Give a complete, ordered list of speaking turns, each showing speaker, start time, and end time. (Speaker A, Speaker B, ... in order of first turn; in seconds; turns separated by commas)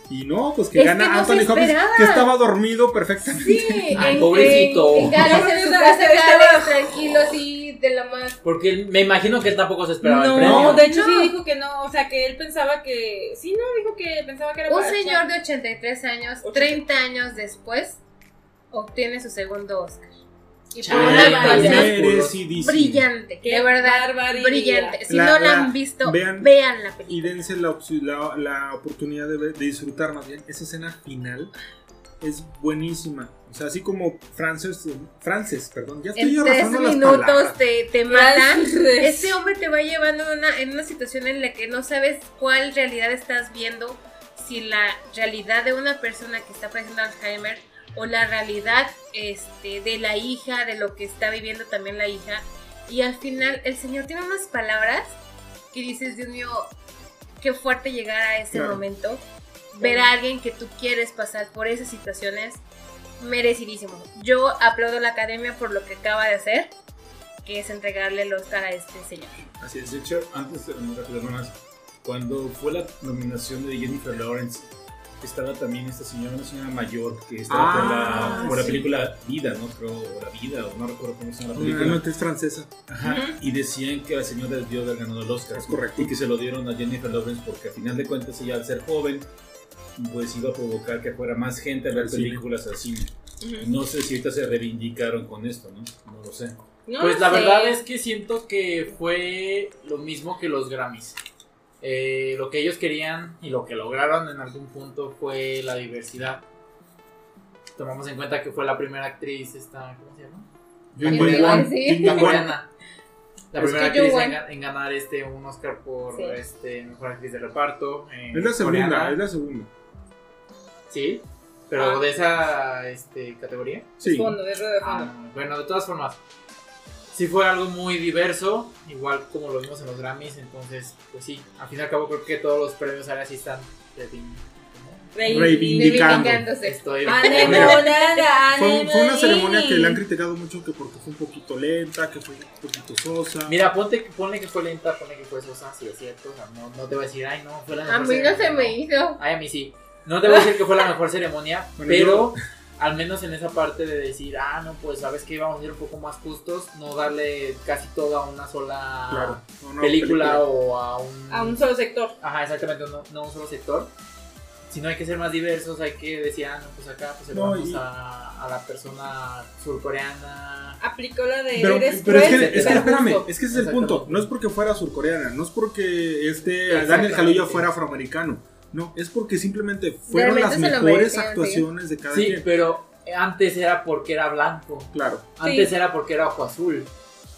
Speaker A: 0.1-5.1, Speaker B: 0.7-2.3, Speaker B: 3.4-8.4, Speaker C: 4.0-5.3, Speaker D: 5.0-7.3, Speaker C: 8.4-10.9, Speaker D: 10.0-15.2, Speaker A: 10.4-10.8, Speaker B: 10.7-11.3, Speaker B: 14.7-18.0, Speaker D: 16.4-16.8, Speaker B: 18.7-20.1, Speaker B: 20.7-22.0, Speaker C: 20.8-22.4, Speaker D: 20.9-21.9, Speaker A: 20.9-23.1, Speaker B: 22.6-27.4, Speaker D: 23.4-25.0, Speaker A: 25.1-26.5, Speaker A: 27.1-31.5, Speaker A: 32.2-37.5, Speaker B: 36.1-55.2, Speaker D: 38.1-39.3, Speaker B: 55.7-56.7, Speaker B: 57.4-62.6, Speaker A: 58.5-58.8, Speaker D: 59.8-60.1, Speaker B: 63.2-66.7, Speaker B: 67.4-69.4, Speaker A: 69.6-69.9, Speaker E: 69.8-74.7, Speaker E: 75.2-82.0, Speaker A: 77.5-78.8, Speaker D: 78.0-78.8, Speaker A: 81.5-82.8, Speaker E: 82.9-89.3, Speaker D: 83.0-83.4, Speaker A: 85.5-86.1, Speaker E: 90.0-96.5, Speaker A: 91.9-92.4, Speaker D: 93.4-93.7, Speaker D: 96.9-97.8, Speaker C: 97.0-101.2, Speaker C: 101.8-106.4, Speaker C: 107.8-110.5, Speaker A: 110.9-112.5, Speaker C: 111.0-112.7, Speaker B: 111.0-112.5, Speaker C: 113.5-119.2, Speaker B: 113.6-114.4, Speaker B: 116.1-116.4, Speaker A: 118.3-119.7, Speaker C: 120.9-123.9, Speaker D: 121.8-122.0, Speaker A: 124.0-124.4, Speaker D: 124.0-125.1, Speaker C: 124.8-126.2, Speaker C: 127.1-135.5, Speaker D: 135.1-136.2, Speaker A: 135.2-136.5, Speaker B: 135.7-138.0, Speaker C: 136.6-137.9, Speaker D: 137.0-140.0, Speaker A: 137.4-137.9, Speaker A: 138.5-143.6, Speaker C: 143.5-161.6, Speaker B: 147.9-149.2, Speaker A: 151.8-152.4, Speaker A: 159.1-160.4, Speaker D: 161.3-162.2, Speaker C: 162.2-163.9, Speaker C: 164.7-170.8, Speaker A: 167.3-167.8, Speaker D: 170.8-173.3, Speaker A: 171.6-182.4, Speaker C: 172.1-174.2, Speaker C: 176.7-177.7, Speaker B: 180.1-181.7, Speaker C: 182.1-186.9, Speaker A: 184.9-185.2, Speaker D: 185.4-185.7